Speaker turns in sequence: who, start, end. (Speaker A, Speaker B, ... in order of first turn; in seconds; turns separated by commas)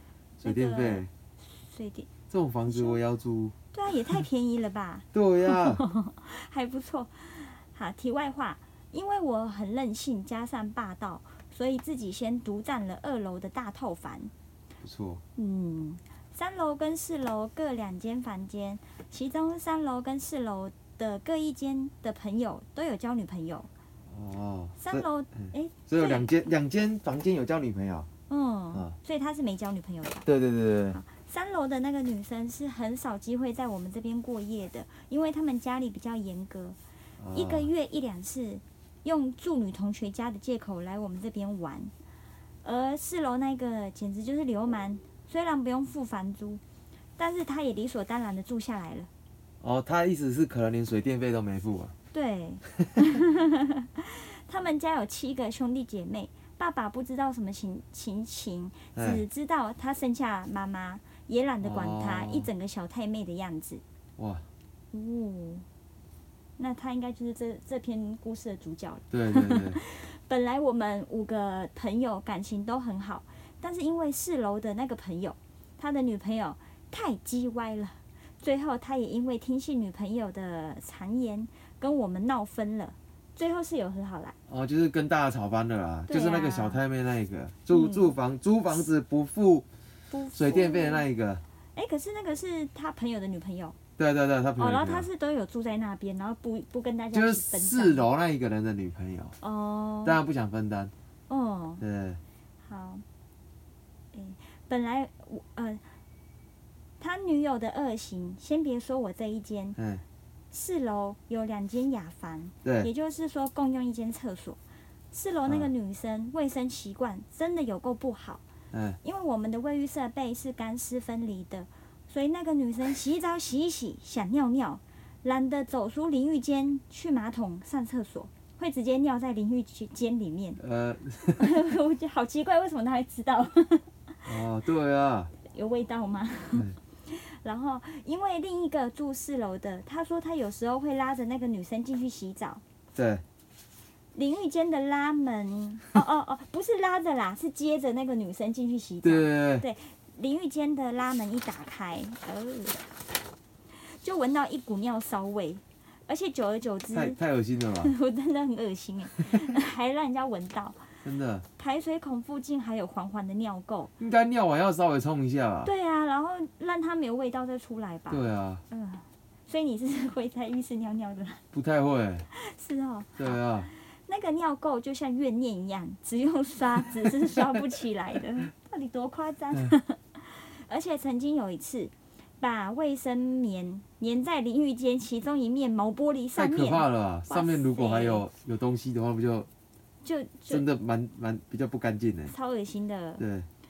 Speaker A: 0.4-1.1, Speaker B: 0.4-2.1, Speaker A: 2.3-3.5, Speaker B: 2.7-3.0, Speaker B: 3.7-14.3, Speaker A: 5.1-5.8, Speaker A: 14.8-15.2, Speaker B: 15.3-23.7, Speaker A: 24.1-28.1, Speaker B: 24.8-26.3, Speaker B: 28.3-30.2, Speaker A: 30.2-31.0, Speaker B: 30.9-36.8, Speaker A: 37.2-37.7, Speaker B: 37.3-41.9, Speaker B: 42.6-46.6, Speaker B: 47.2-49.1, Speaker A: 49.6-51.9, Speaker B: 52.1-63.8, Speaker A: 52.7-53.0, Speaker A: 58.9-59.2, Speaker A: 61.6-62.5, Speaker A: 64.2-64.4, Speaker B: 64.9-65.7, Speaker B: 66.6-84.3, Speaker A: 69.1-69.8, Speaker A: 84.5-89.7, Speaker B: 86.1-86.8, Speaker B: 87.7-88.1, Speaker B: 90.1-91.0, Speaker A: 90.3-91.4, Speaker B: 91.7-93.8, Speaker A: 94.0-95.1, Speaker B: 94.6-98.0, Speaker A: 97.1-99.3, Speaker B: 99.4-100.2, Speaker A: 100.0-100.9, Speaker B: 101.3-101.8, Speaker A: 101.8-102.2, Speaker B: 102.7-103.0, Speaker B: 104.1-105.8, Speaker B: 107.0-109.8, Speaker A: 109.8-110.0, Speaker B: 110.5-114.6, Speaker A: 112.6-112.9, Speaker B: 115.1-118.4, Speaker A: 118.7-119.0, Speaker B: 119.0-130.6, Speaker A: 130.6-131.5, Speaker B: 131.4-134.3, Speaker A: 134.2-135.3, Speaker B: 135.5-142.6, Speaker A: 142.9-143.2, Speaker B: 144.1-153.0, Speaker A: 149.0-149.7, Speaker B: 153.7-157.2, Speaker A: 156.9-157.9, Speaker B: 157.8-160.8, Speaker A: 161.0-161.4, Speaker B: 161.6-163.9, Speaker A: 164.0-165.7, Speaker B: 165.6-171.4, Speaker A: 168.1-168.6, Speaker A: 171.5-172.2, Speaker B: 172.3-188.2, Speaker A: 173.2-173.7, Speaker A: 186.3-189.5, Speaker B: 190.0-190.6, Speaker A: 190.5-192.3, Speaker B: 192.3-193.2, Speaker A: 193.2-193.5